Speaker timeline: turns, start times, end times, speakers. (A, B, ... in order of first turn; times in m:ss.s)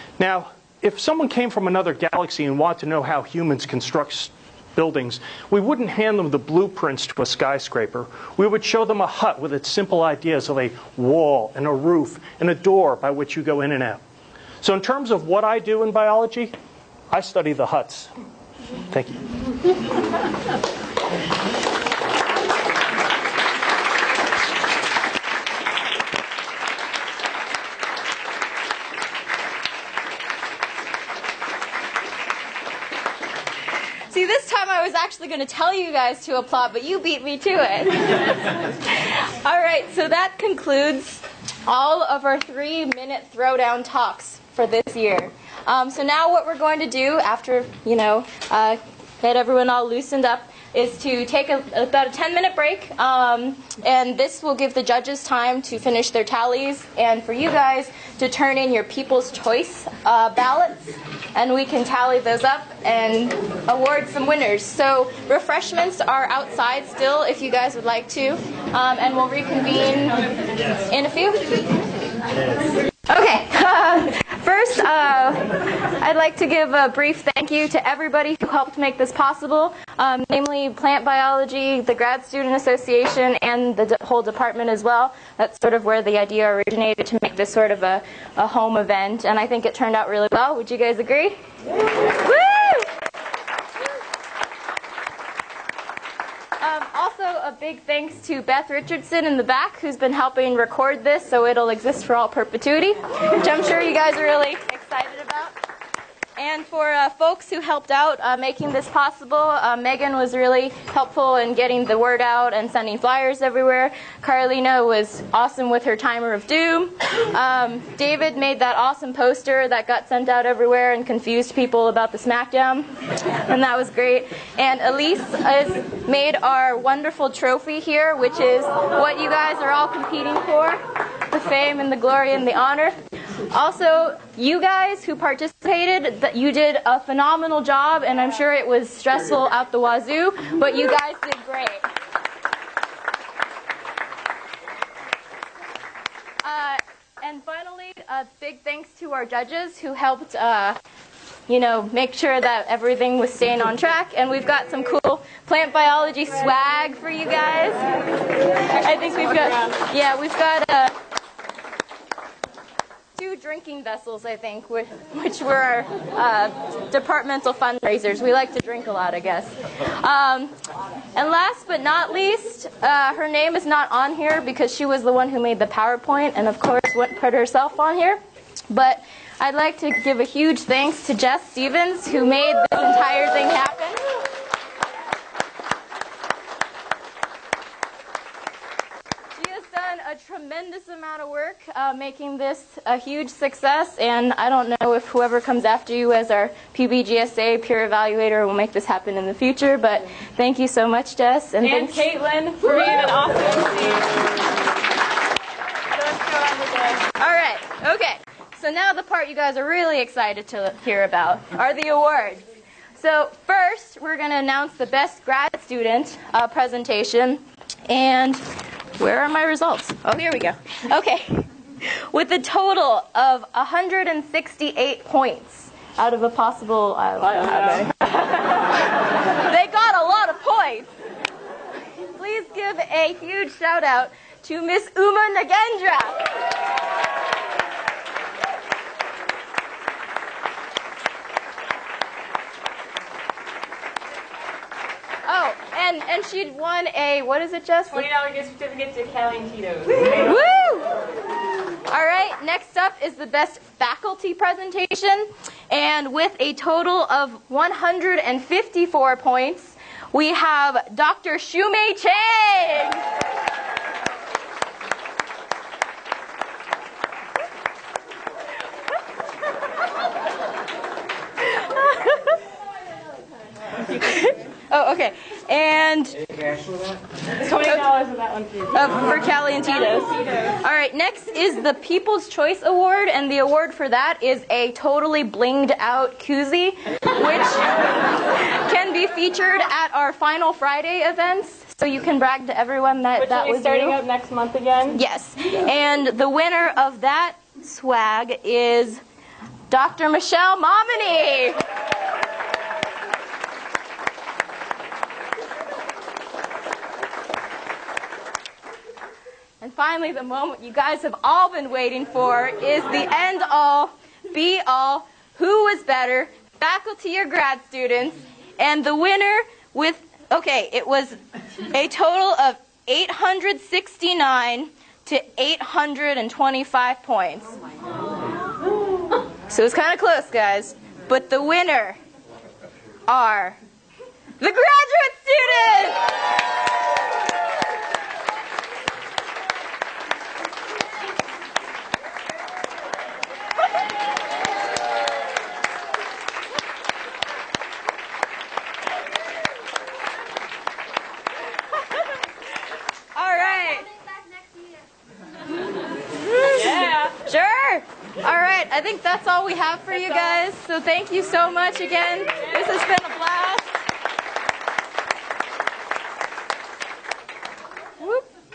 0:00.2-0:14.0 A
0:14.6-0:16.5 A
0:17.1-0:18.1 A
0:18.9-0:19.3 A
0:34.1-1:11.8 B
1:13.1-1:31.4 B
1:32.1-1:32.9 B
1:36.6-1:45.5 B
1:46.4-2:02.9 B
2:03.4-2:13.0 B
2:13.5-2:21.8 B
2:26.4-2:30.8 B
2:31.5-2:37.9 B
2:38.7-2:40.9 B
2:43.2-2:50.5 B
2:51.2-3:04.0 B
3:09.3-3:22.0 B
3:21.6-3:24.2 C
3:25.9-3:27.0 C
3:27.2-3:32.4 B
3:33.0-3:38.4 B
3:39.0-3:48.0 B
3:47.4-3:47.9 C
3:49.4-3:50.9 B
3:52.0-3:56.2 B
4:05.2-4:08.1 B
4:07.9-4:10.3 C
4:10.2-4:10.9 B
4:11.9-4:23.0 B
4:31.8-4:32.2 B
4:34.0-4:36.2 B
4:37.4-4:39.0 C
4:37.4-4:38.0 B
4:38.7-4:54.0 B
4:53.2-4:55.0 C
4:54.9-4:59.0 B
4:59.7-5:01.6 B
5:09.6-5:21.2 B
5:21.7-5:27.6 B
5:29.5-5:32.0 B
5:33.1-5:33.6 B
5:34.4-5:36.0 B
5:53.1-5:53.9 B
5:56.2-6:03.6 B
5:56.5-5:57.1 C
6:08.0-6:08.2 B